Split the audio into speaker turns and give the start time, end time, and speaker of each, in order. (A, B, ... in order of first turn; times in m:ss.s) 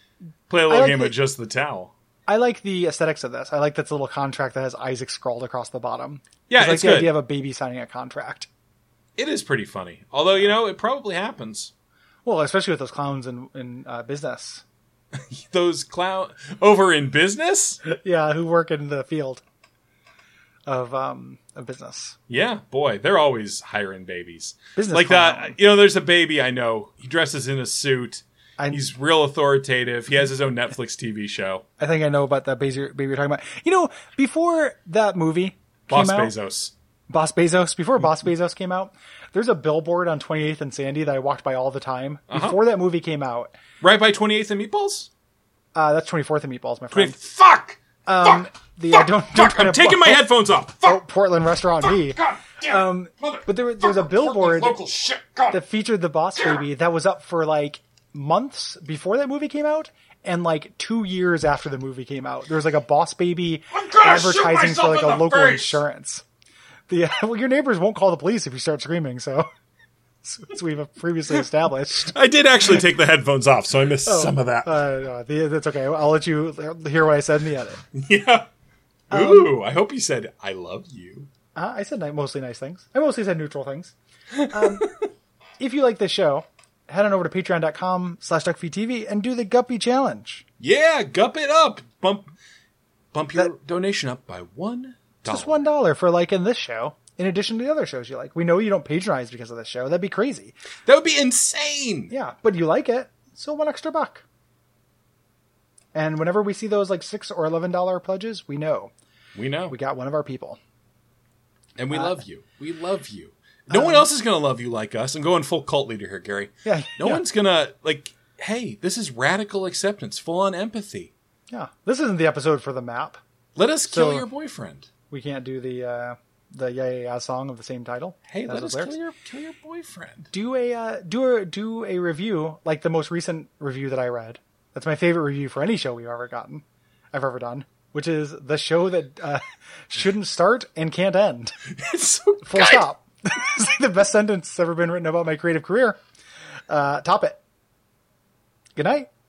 0:00.5-0:01.9 A
0:00.7-0:01.1 B
0:02.3-0:08.5 B
0:06.5-0:07.2 A
0:09.2-0:11.7 A
0:12.2-0:14.6 B
0:15.1-0:17.8 A
0:17.8-0:19.4 B
0:20.7-0:22.2 B
0:22.3-0:31.6 A
0:24.8-0:25.6 B
0:28.6-0:28.9 B
0:31.8-0:36.3 B
0:35.9-0:36.7 A
0:37.1-0:43.5 B
0:42.3-0:42.6 A
0:43.8-0:45.1 A
0:45.7-0:47.2 B
0:46.9-0:51.0 A
0:48.0-0:50.2 B
0:50.8-0:54.8 B
0:51.8-0:55.6 A
0:55.5-1:06.2 B
1:03.7-1:05.8 A
1:06.9-1:09.5 B
1:10.2-1:12.1 B
1:12.1-1:14.7 A
1:14.0-1:17.8 B
1:17.9-1:18.5 A
1:19.1-1:19.5 B
1:19.1-1:21.3 A
1:21.5-1:23.9 B
1:24.4-1:25.0 A
1:24.5-1:24.9 B
1:25.6-1:30.4 B
1:30.6-1:32.3 A
1:33.1-1:35.6 A
1:35.3-1:40.6 B
1:40.8-1:42.1 A
1:42.1-1:44.2 B
1:45.9-1:48.9 B
1:49.3-1:49.7 A
1:49.7-1:50.6 B
1:51.8-2:01.1 A
1:51.9-1:52.2 B
1:53.7-1:54.1 B
1:56.6-1:57.2 B
2:01.5-2:03.2 B
2:03.6-2:04.9 A
2:03.9-2:04.3 B
2:05.1-2:08.9 B
2:08.3-2:10.3 A
2:10.3-2:21.6 B
2:21.8-2:22.8 A
2:22.4-2:26.0 B
2:26.7-2:27.4 B
2:28.8-2:29.1 B